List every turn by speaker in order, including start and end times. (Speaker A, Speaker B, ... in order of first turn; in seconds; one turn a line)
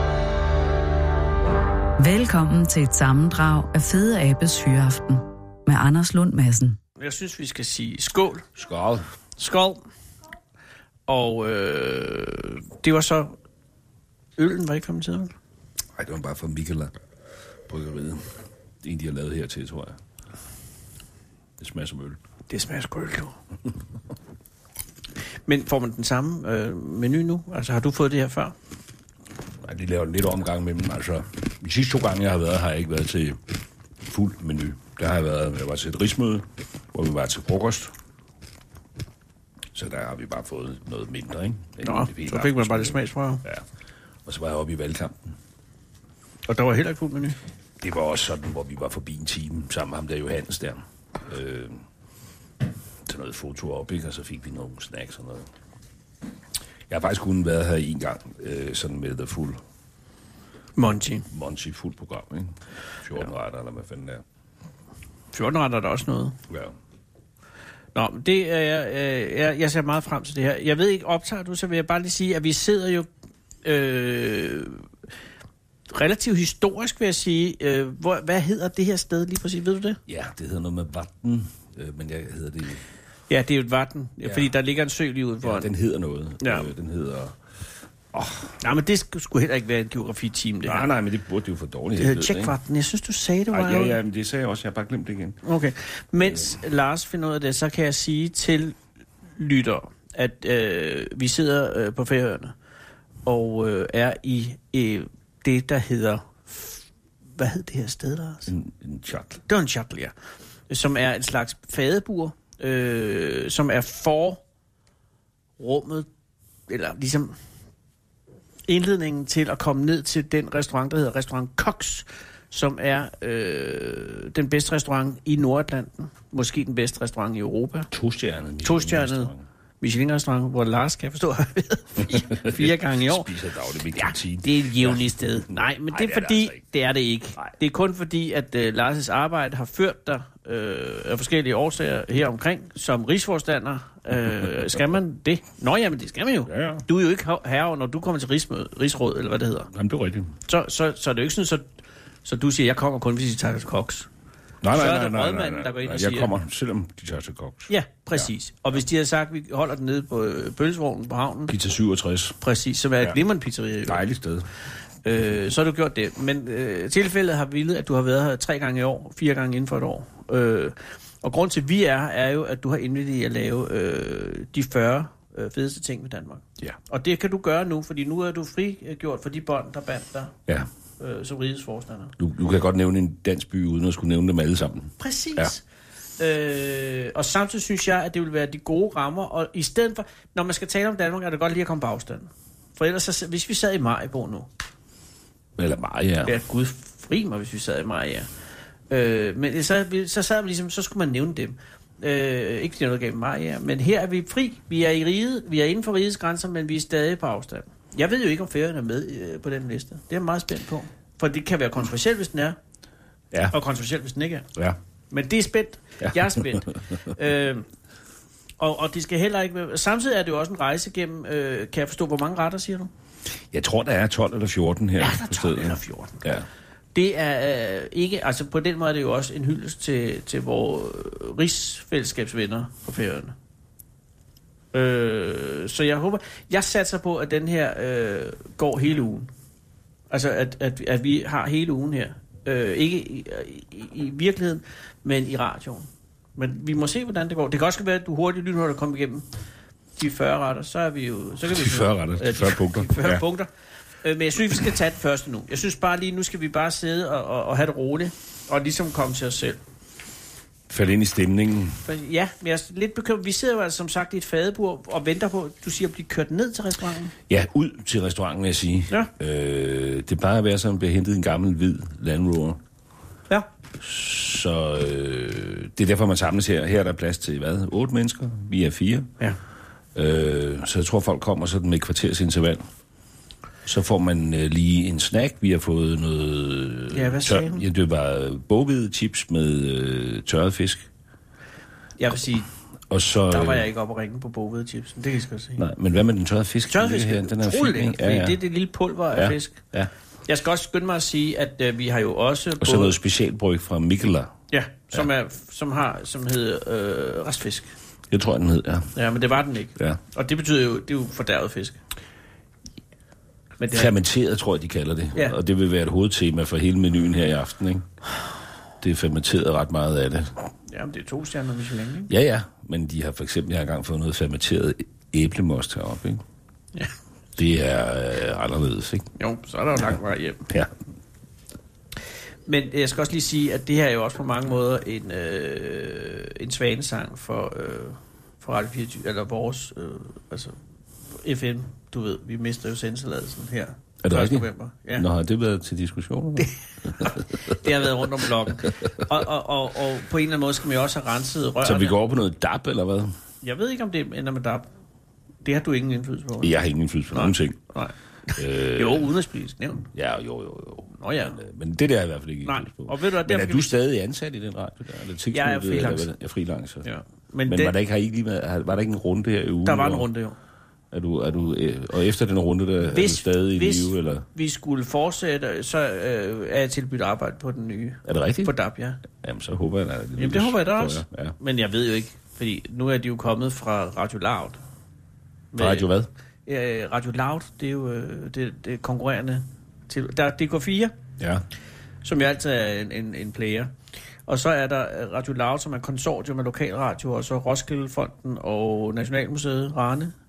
Speaker A: 2.0-6.8
Speaker B: 7.0-8.4
Speaker C: 8.6-9.0
Speaker B: 9.4-9.8
Speaker B: 11.1-13.4
Speaker B: 14.4-15.3
Speaker C: 15.9-16.9
Speaker C: 17.7-18.3
Speaker C: 18.8-20.0
Speaker C: 21.6-22.2
Speaker B: 22.5-23.3
Speaker B: 25.4-28.5
Speaker C: 29.6-33.4
Speaker C: 34.0-37.9
Speaker C: 39.7-43.6
Speaker B: 41.8-43.4
Speaker C: 44.2-45.2
Speaker B: 46.5-47.4
Speaker C: 47.8-51.8
Speaker C: 53.0-55.5
Speaker C: 56.9-59.6
Speaker B: 60.8-61.3
Speaker C: 61.3-64.2
Speaker B: 65.3-66.4
Speaker C: 66.5-66.7
Speaker B: 67.9-73.1
Speaker B: 73.6-74.9
Speaker B: 75.9-80.0
Speaker C: 80.1-82.8
Speaker B: 83.3-85.7
Speaker C: 84.2-84.5
Speaker C: 85.4-87.3
Speaker B: 86.4-86.7
Speaker C: 88.1-88.6
Speaker B: 88.6-90.9
Speaker C: 90.6-92.5
Speaker B: 92.0-94.0
Speaker C: 93.5-95.4
Speaker B: 95.4-98.8
Speaker B: 99.3-102.5
Speaker B: 103.2-106.8
Speaker B: 107.3-108.5
Speaker C: 108.5-109.4
Speaker B: 109.5-110.1
Speaker B: 110.7-114.4
Speaker B: 115.6-116.1
Speaker B: 116.7-117.3
Speaker B: 118.7-127.9
Speaker C: 127.9-129.4
Speaker B: 128.6-133.3
Speaker C: 132.0-136.6
Speaker B: 133.9-149.7
Speaker C: 146.4-146.8
Speaker C: 149.7-150.3
Speaker B: 150.5-151.7
Speaker B: 152.2-154.1
Speaker C: 154.6-158.3
Speaker B: 154.7-156.3
Speaker B: 157.7-161.5
Speaker C: 161.5-162.4
Speaker B: 162.4-164.0
Speaker C: 163.8-164.5
Speaker B: 165.0-180.3
Speaker B: 181.0-182.2
Speaker C: 182.2-185.5
Speaker B: 185.0-185.6
Speaker B: 186.2-194.5
Speaker C: 195.6-196.3
Speaker B: 196.2-198.3
Speaker B: 198.9-212.6
Speaker B: 213.5-214.5
Speaker B: 215.1-217.7
Speaker C: 216.0-216.8
Speaker B: 218.6-222.9
Speaker C: 223.5-226.4
Speaker B: 225.0-226.2
Speaker B: 226.9-233.3
Speaker B: 234.7-239.3
Speaker B: 240.1-249.2
Speaker B: 250.0-253.5
Speaker C: 251.4-253.2
Speaker B: 254.0-259.6
Speaker C: 260.7-261.8
Speaker B: 261.8-267.1
Speaker C: 267.3-272.6
Speaker C: 273.8-279.1
Speaker C: 279.9-282.6
Speaker C: 283.6-290.9
Speaker B: 286.9-287.6
Speaker B: 292.0-292.5
Speaker C: 292.9-293.6
Speaker B: 293.3-295.6
Speaker C: 295.6-298.4
Speaker B: 296.7-299.6
Speaker C: 299.1-299.9
Speaker B: 300.3-303.0
Speaker C: 302.6-304.3
Speaker B: 304.5-307.7
Speaker C: 308.1-308.9
Speaker B: 308.9-311.8
Speaker B: 313.6-313.9
Speaker C: 313.7-317.8
Speaker C: 318.8-320.5
Speaker B: 320.7-322.1
Speaker C: 322.1-326.2
Speaker C: 327.4-329.1
Speaker B: 329.2-330.5
Speaker B: 332.4-340.6
Speaker B: 341.1-345.1
Speaker C: 344.0-347.5
Speaker B: 347.0-352.0
Speaker C: 351.6-353.1
Speaker B: 353.4-354.7
Speaker B: 355.4-356.6
Speaker C: 356.4-357.6
Speaker B: 357.1-359.9
Speaker C: 358.4-359.1
Speaker C: 359.9-366.9
Speaker B: 361.0-361.4
Speaker B: 362.4-363.7
Speaker B: 365.3-366.1
Speaker B: 366.8-367.8
Speaker C: 367.4-370.1
Speaker B: 369.6-370.4
Speaker C: 370.9-374.2
Speaker B: 372.9-379.0
Speaker C: 378.0-378.5
Speaker C: 379.1-381.3
Speaker B: 380.2-384.6
Speaker B: 385.5-385.9
Speaker C: 385.6-386.1
Speaker B: 386.4-390.9
Speaker C: 391.2-391.4
Speaker B: 392.0-393.7
Speaker B: 394.2-400.1